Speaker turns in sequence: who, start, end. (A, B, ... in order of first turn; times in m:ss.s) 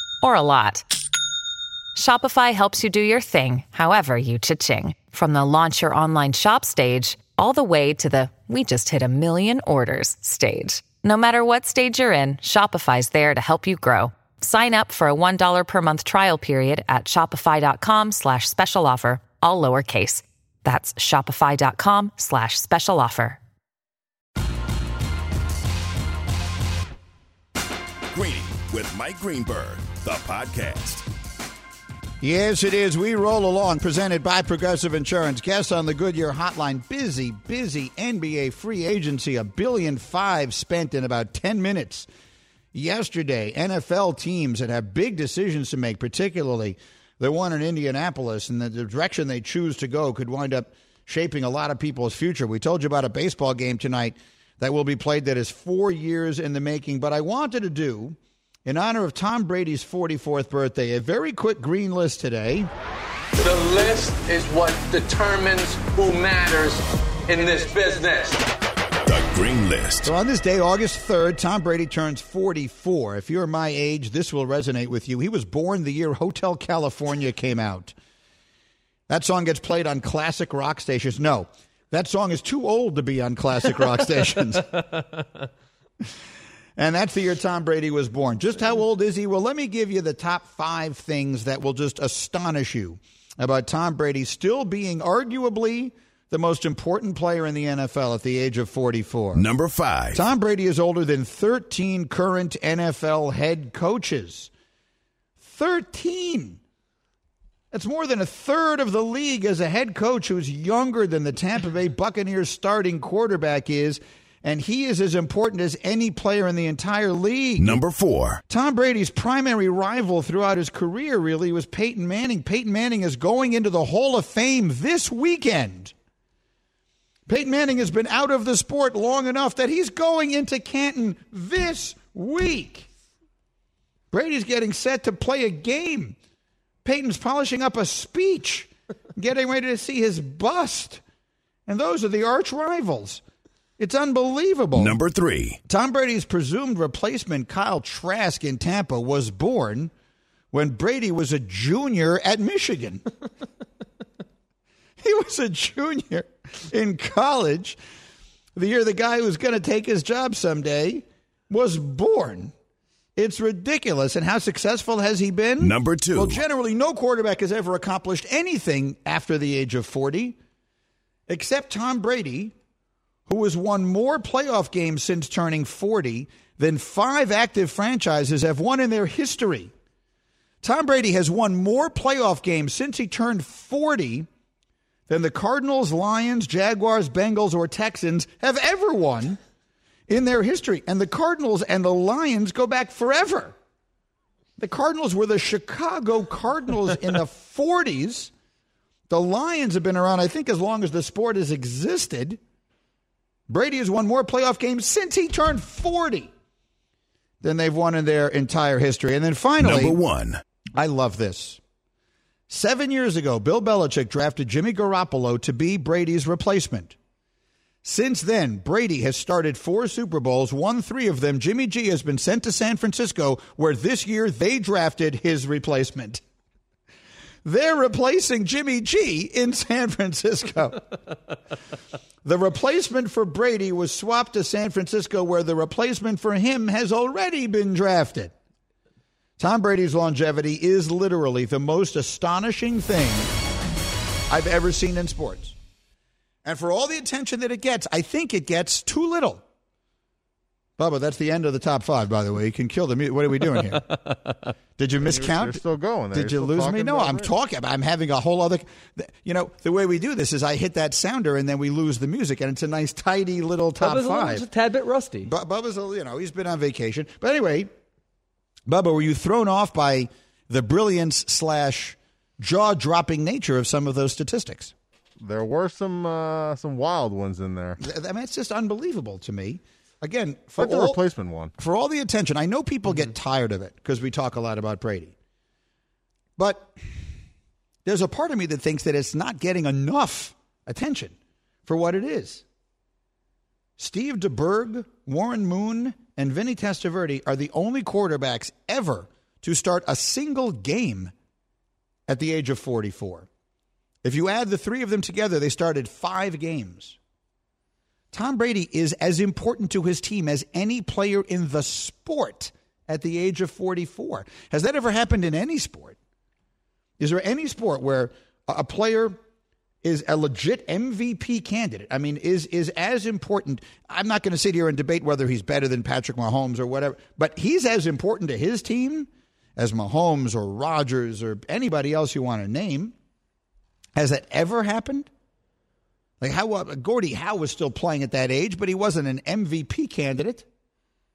0:00.2-0:00.8 A
0:01.9-0:23.4 A
0:28.1-0:31.0 B
0:32.2-0:42.1 C
0:42.7-1:02.7 C
1:03.4-1:08.4 D
1:09.0-1:10.1 B
1:10.0-1:17.9 C
1:19.1-1:24.8 C
1:26.8-1:39.5 C
1:39.3-1:40.2 B
1:40.1-1:44.5 C
1:45.4-1:46.6 C
1:47.7-1:57.8 C
1:57.6-1:58.4 B
1:58.5-2:05.9 C
2:07.3-2:12.9 C
2:14.1-2:16.2 C
2:16.8-2:21.0 C
2:21.7-2:23.2 C
2:23.8-2:25.0 C
2:24.7-2:25.6 B
2:25.7-2:29.9 C
2:30.5-2:33.0 C
2:35.0-2:37.8 C
2:38.5-2:42.5 C
2:43.2-2:50.4 C
2:45.6-2:46.4 B
2:51.3-2:52.5 C
2:53.3-2:59.7 C
3:00.6-3:04.3 C
3:05.1-3:09.4 C
3:10.1-3:13.5 C
3:14.6-3:18.3 C
3:19.1-3:22.4 C
3:23.5-3:26.3 C
3:27.4-3:30.0 C
3:29.6-3:30.4 B
3:30.8-3:31.6 C
3:32.5-3:36.9 C
3:37.8-3:46.2 C
3:47.4-3:50.8 C
3:52.2-3:58.3 C
3:59.4-4:03.3 C
4:04.3-4:05.6 C
4:06.4-4:09.4 C
4:10.8-4:13.8 C
4:13.7-4:14.5 E
4:14.8-4:24.4 C
4:15.0-4:17.3 F
4:23.8-4:25.3 E
4:25.2-4:27.7 C
4:28.7-4:34.7 C
4:35.2-4:37.8 F
4:37.8-4:41.0 C
4:40.6-4:41.5 F
4:41.6-4:45.1 C
4:46.4-4:46.8 C
4:47.8-4:51.1 C
4:51.6-4:52.4 C
4:53.8-5:01.1 C
5:02.1-5:03.3 C
5:04.0-5:07.0 C
5:08.1-5:16.0 C
5:17.0-5:19.2 C
5:19.8-5:32.9 C
5:33.9-5:35.1 C
5:36.2-5:40.4 C